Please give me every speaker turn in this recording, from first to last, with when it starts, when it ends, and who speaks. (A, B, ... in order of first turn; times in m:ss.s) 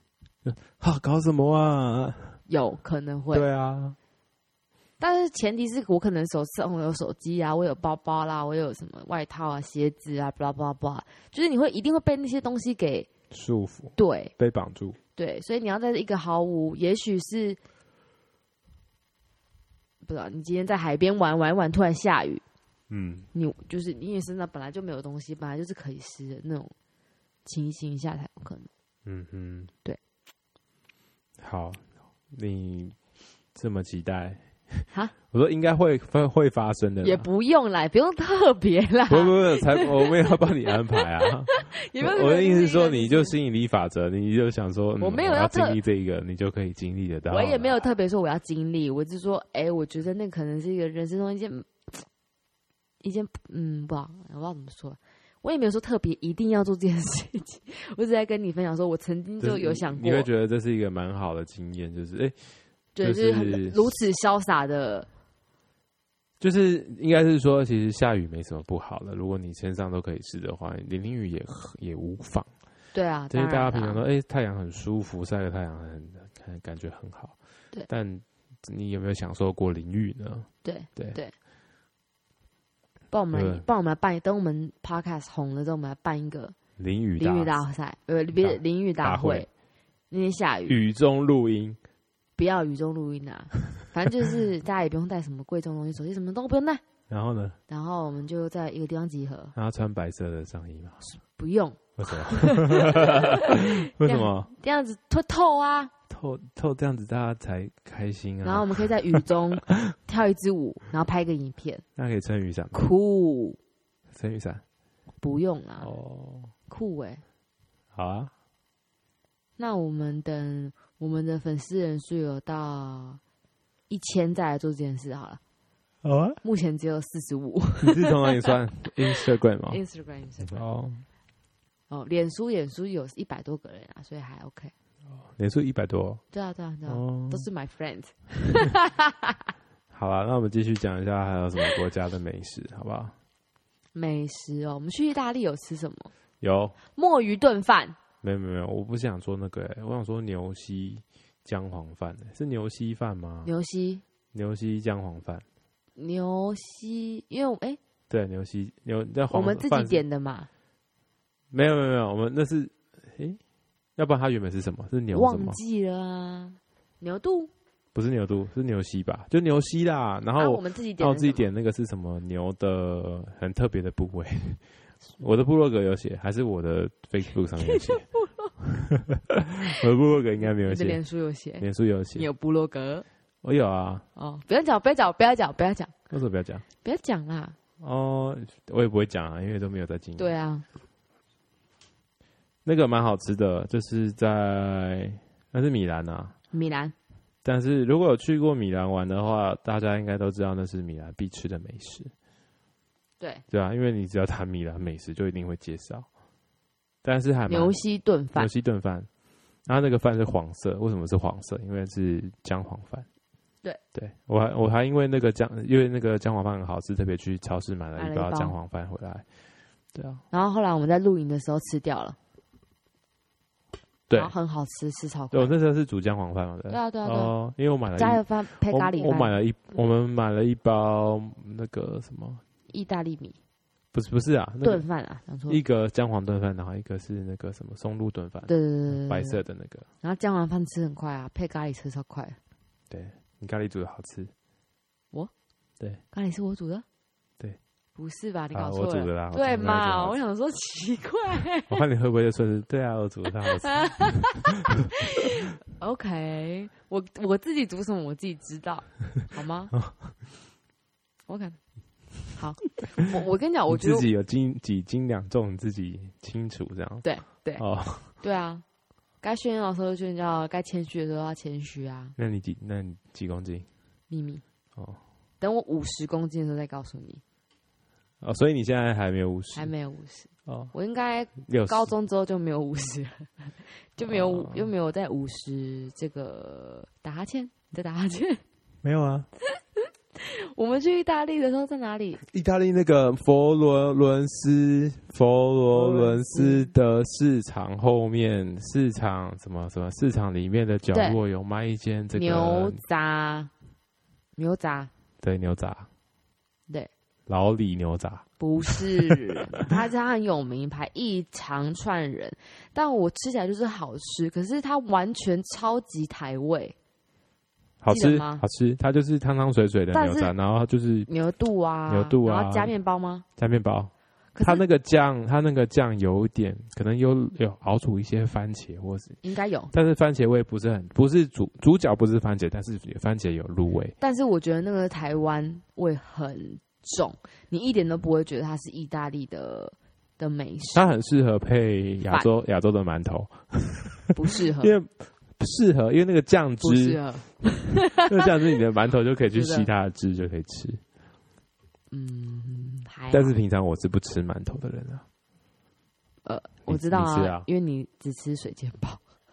0:00.4-0:02.4 A
0:02.5-0:03.5 B
0:03.3-0:04.0 A
0:05.0-0:13.1 B
0:13.3-0:15.0 A
0:14.0-0:14.3 B
0:15.2-0:17.6 B
0:20.0-0:22.4 B
0:22.9-0:23.3 A
0:23.3-0:26.7 B
0:27.4-0:28.7 B
0:29.0-0:29.7 A
0:31.4-0:33.0 A
0:33.5-0:37.3 A
0:37.0-0:43.3 B
0:39.1-0:47.9 A
0:45.0-0:45.8 B
0:47.3-0:52.0 B
0:53.0-1:00.3 B
0:59.4-1:02.4 A
1:03.0-1:05.1 B
1:03.0-1:03.9 A
1:06.4-1:12.5 A
1:12.9-1:14.0 B
1:13.3-1:17.3 A
1:17.9-1:21.2 A
1:20.6-1:21.3 B
1:23.1-1:26.5 B
1:23.3-1:23.6 A
1:26.8-1:27.6 A
1:27.2-1:29.5 B
1:28.4-1:29.5 A
1:30.1-1:30.8 B
1:30.7-1:31.8 A
1:32.4-1:36.8 B
1:37.1-1:37.6 A
1:37.7-1:39.5 B
1:39.5-1:41.0 A
1:41.1-1:45.9 B
1:42.0-1:44.5 A
1:46.1-1:49.9 A
1:48.4-1:51.8 B
1:52.0-1:52.9 A
1:52.7-1:53.6 B
1:54.1-1:54.6 A
1:55.2-1:55.9 B
1:55.8-1:56.5 A
1:56.7-1:57.2 B
1:57.9-1:58.3 A
1:59.6-2:03.2 B
2:03.9-2:05.4 B
2:06.0-2:06.4 A
2:06.4-2:08.5 B
2:07.8-2:09.8 A
2:09.7-2:10.6 B
2:10.4-2:11.0 A
2:11.9-2:14.7 B
2:15.2-2:16.2 A
2:16.3-2:19.4 B
2:16.9-2:17.5 A
2:19.9-2:23.1 A
2:23.9-2:26.1 B
2:26.4-2:26.8 A
2:26.9-2:28.0 B
2:28.2-2:33.5 A
2:33.4-2:34.0 B
2:34.3-2:35.4 A
2:36.0-2:37.8 B
2:38.1-2:40.0 A
2:39.3-2:40.5 B
2:41.5-2:43.4 A
2:44.0-2:45.6 A
2:45.1-2:47.5 B
2:47.9-2:54.6 A
2:50.4-2:51.5 B
2:55.2-2:58.0 A
2:57.6-2:58.5 B
2:58.7-3:01.0 A
3:00.6-3:01.6 B
3:01.6-3:02.3 A
3:02.2-3:03.0 B
3:03.4-3:04.0 A
3:04.2-3:06.0 B
3:06.1-3:06.6 A
3:06.8-3:07.6 B
3:07.8-3:10.3 A
3:10.2-3:10.6 B
3:12.6-3:16.3 A
3:16.5-3:16.9 B
3:17.4-3:22.1 A
3:23.5-3:26.1 A
3:27.0-3:27.8 A
3:27.5-3:28.5 B
3:28.3-3:29.1 A
3:29.6-3:33.0 A
3:33.9-3:39.2 A
3:38.0-3:38.6 B
3:39.9-3:40.2 A
3:40.3-3:42.2 B
3:44.1-3:45.6 B
3:45.3-3:52.4 A
3:46.7-3:47.3 B
3:48.0-3:49.3 B
3:52.7-3:53.4 B
3:53.9-3:54.8 A
3:54.6-3:55.6 B
3:55.5-3:59.8 A
3:58.5-3:59.4 B
4:00.0-4:02.4 B
4:02.9-4:04.3 A
4:06.1-4:06.8 B
4:08.0-4:11.8 B
4:08.5-4:10.2 A
4:11.7-4:14.5 A
4:13.6-4:19.7 B
4:21.3-4:21.6 B
4:22.3-4:24.1 B
4:23.7-4:27.0 A
4:27.0-4:28.6 B
4:27.6-4:28.1 A
4:29.2-4:32.1 B
4:32.2-4:33.7 A
4:34.1-4:34.4 B
4:35.4-4:37.2 B
4:38.2-4:39.7 A
4:39.5-4:48.4 B
4:40.5-4:40.7 A
4:41.4-4:41.9 A
4:44.0-4:44.7 A
4:48.8-4:49.3 A
4:49.4-4:52.2 B
4:52.2-5:02.8 A
4:55.7-4:56.7 B
5:00.9-5:01.2 B
5:02.1-5:03.5 B
5:04.4-5:04.9 B
5:05.2-5:05.9 A
5:07.3-5:09.1 A
5:08.4-5:16.7 B
5:17.8-5:21.1 A
5:17.9-5:18.4 B
5:19.9-5:20.3 B
5:21.1-5:23.2 B
5:21.9-5:22.7 A
5:23.4-5:29.2 A
5:24.3-5:24.6 B
5:29.2-5:29.7 B
5:29.7-5:34.0 A
5:34.0-5:40.9 B
5:40.7-5:47.0 A
5:44.1-5:44.8 B
5:46.6-5:48.3 B
5:47.8-5:50.8 A
5:49.3-5:49.7 B
5:51.9-5:53.4 B
5:53.1-5:55.0 A
5:56.2-5:59.0 B
5:56.7-5:57.5 A